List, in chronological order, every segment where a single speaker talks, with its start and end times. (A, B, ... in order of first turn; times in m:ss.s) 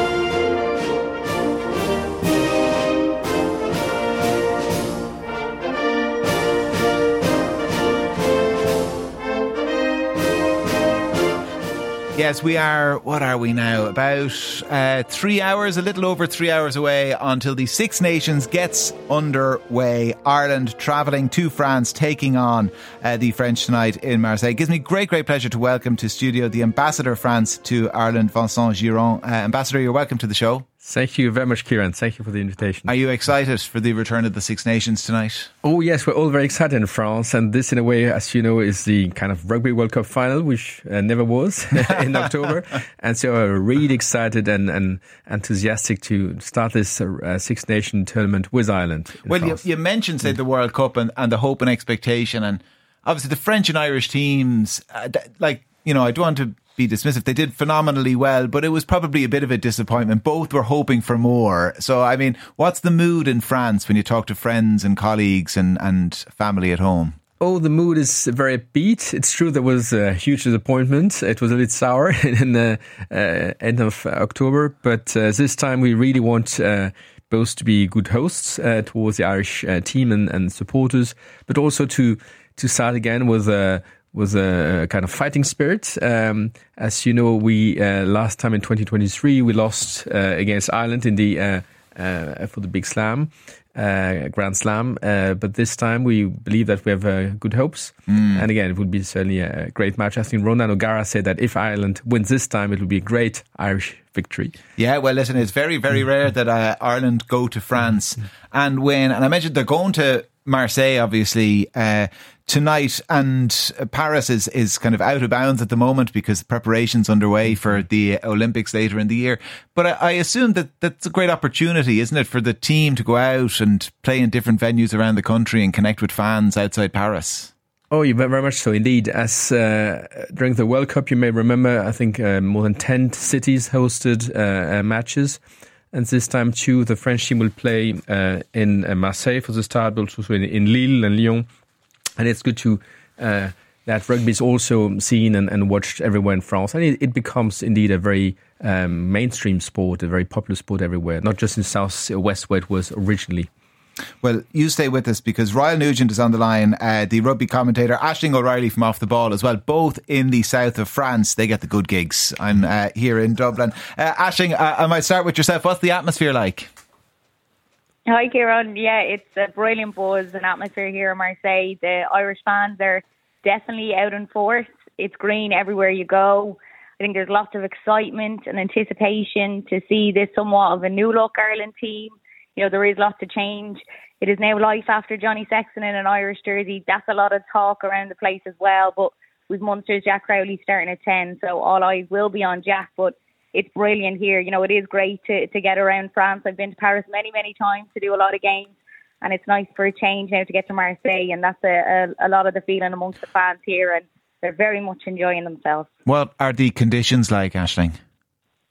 0:12.1-0:30.6 A
0:30.8-0:32.9 B
0:32.9-0:35.5 A
0:35.6-0:49.6 B
0:49.3-1:07.2 A
1:07.4-1:44.6 B
1:38.1-1:38.4 A
1:44.8-2:07.5 A
2:07.9-2:15.4 B
2:15.9-2:21.5 B
2:22.2-2:33.5 B
2:34.2-2:46.7 A
2:48.1-3:25.9 C
3:26.0-3:28.0 A